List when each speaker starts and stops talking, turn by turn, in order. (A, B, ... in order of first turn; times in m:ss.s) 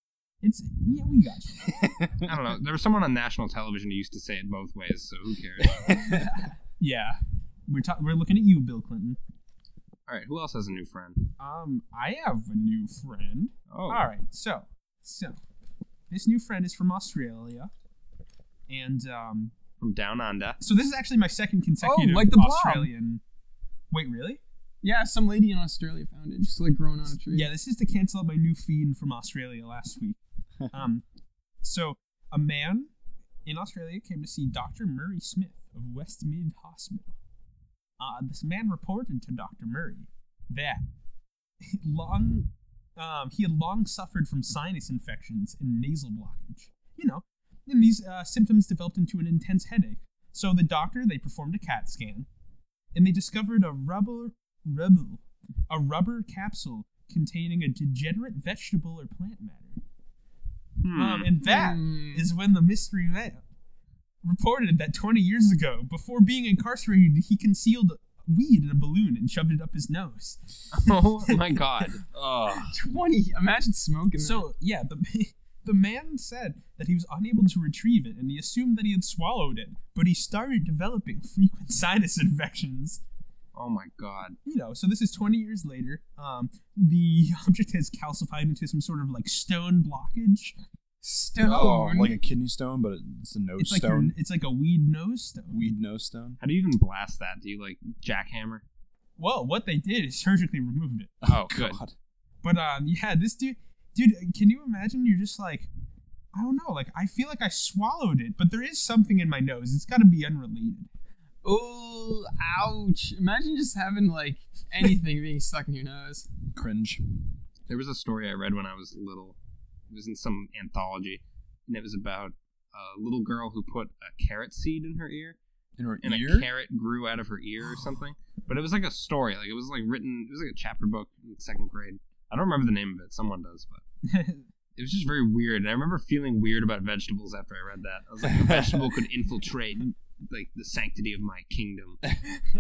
0:00.4-0:02.0 A
0:01.8-0:02.3 B
0:02.2-0:06.0 C
0:06.1-0:06.5 D
0:06.8-0:09.2 A
0:10.1-0:11.4 C
0:11.4-0:15.4 A
0:13.7-0:14.0 C
0:16.1-0:17.7 A
0:18.7-0:19.5 A
0:19.8-0:20.6 C
0:20.6-0:23.2 A
0:21.8-0:22.9 D
0:23.9-0:24.4 A
0:24.8-0:27.5 D
0:27.3-0:30.2 A
0:30.7-0:31.0 A
0:31.6-0:32.9 A
0:33.5-0:37.2 A
0:38.0-0:40.8 A
0:41.6-0:52.3 A
0:52.9-0:59.8 A
1:00.8-1:01.3 C
1:00.9-1:03.4 A
1:01.4-1:02.3 D
1:04.2-1:11.0 A
1:10.7-1:12.0 C
1:12.0-1:12.8 B
1:12.6-1:14.5 D
1:14.2-1:23.0 A
1:23.6-1:24.4 C
1:24.4-1:30.6 A
1:31.0-1:32.2 D
1:31.4-1:34.2 B
1:33.6-1:35.7 A
1:35.5-1:36.4 B
1:36.4-1:38.6 C
1:39.2-1:41.1 A
1:41.2-1:41.9 B
1:41.3-1:41.8 C
1:42.4-1:45.7 A
1:46.3-1:50.9 A
1:51.4-1:56.3 D
1:56.5-1:57.4 B
1:57.7-1:59.4 C
1:59.9-2:05.4 C
2:05.8-2:06.5 B
2:06.0-2:13.8 C
2:14.0-2:14.5 A
2:14.8-2:22.0 C
2:18.2-2:19.0 B